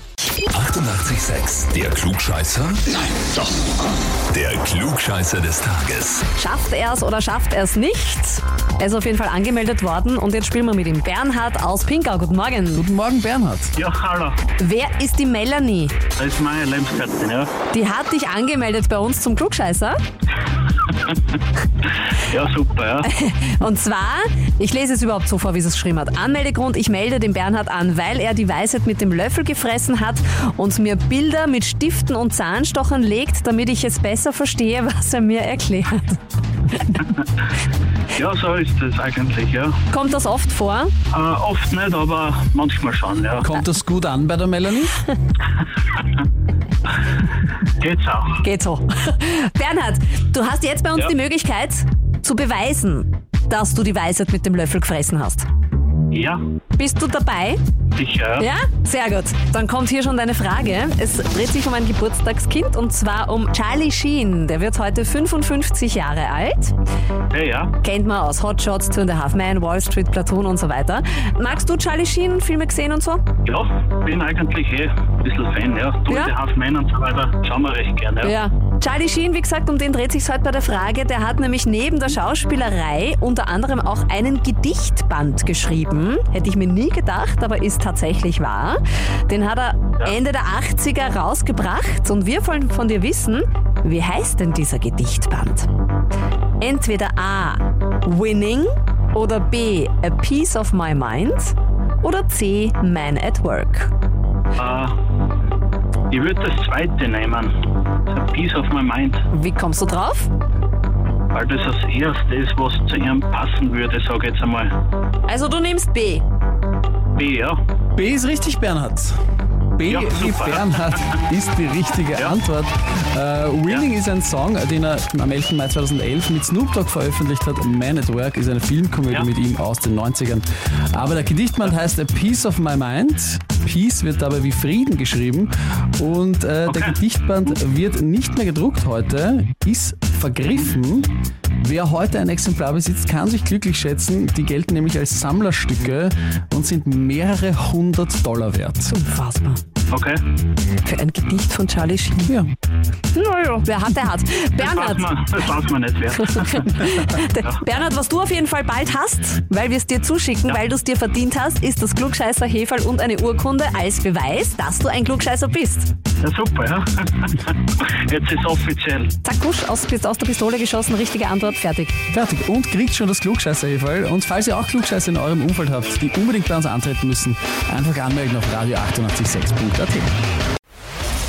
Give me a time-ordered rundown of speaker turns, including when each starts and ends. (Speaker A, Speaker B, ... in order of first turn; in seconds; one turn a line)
Speaker A: 0.5-3.1
Speaker A: 4.3-6.3
Speaker B: 6.4-12.9
Speaker C: 12.7-13.8
Speaker D: 13.8-14.4
Speaker B: 14.6-16.0
Speaker D: 16.1-17.5
Speaker B: 17.7-20.0
Speaker D: 20.9-21.2
Speaker D: 22.2-23.1
Speaker B: 23.0-36.2
Speaker D: 38.1-39.8
Speaker B: 39.9-40.9
Speaker D: 41.1-43.5
Speaker C: 43.4-45.0
Speaker D: 47.8-48.4
Speaker B: 48.4-55.5
Speaker D: 56.1-56.4
Speaker B: 56.8-57.6
Speaker D: 58.0-58.5
Speaker B: 58.4-66.7
Speaker D: 67.3-67.8
Speaker B: 67.8-73.3
Speaker D: 73.5-78.3
Speaker B: 76.1-76.3
Speaker B: 78.2-95.7
Speaker B: 96.6-103.9
Speaker D: 104.6-104.9
Speaker D: 106.1-107.5
Speaker D: 108.1-109.2
Speaker B: 109.3-110.3
Speaker D: 111.3-114.7
Speaker B: 115.3-116.2
Speaker D: 117.2-117.6
Speaker C: 118.0-119.2
Speaker C: 119.8-149.0
Speaker D: 119.9-121.2
Speaker D: 136.7-137.0
Speaker B: 148.9-149.6
Speaker D: 149.9-150.2
Speaker B: 150.8-152.4
Speaker C: 152.2-152.5
Speaker B: 153.1-155.1
Speaker D: 154.6-157.6
Speaker B: 156.3-165.9
Speaker D: 166.2-169.1
Speaker B: 169.2-171.9
Speaker C: 172.1-180.2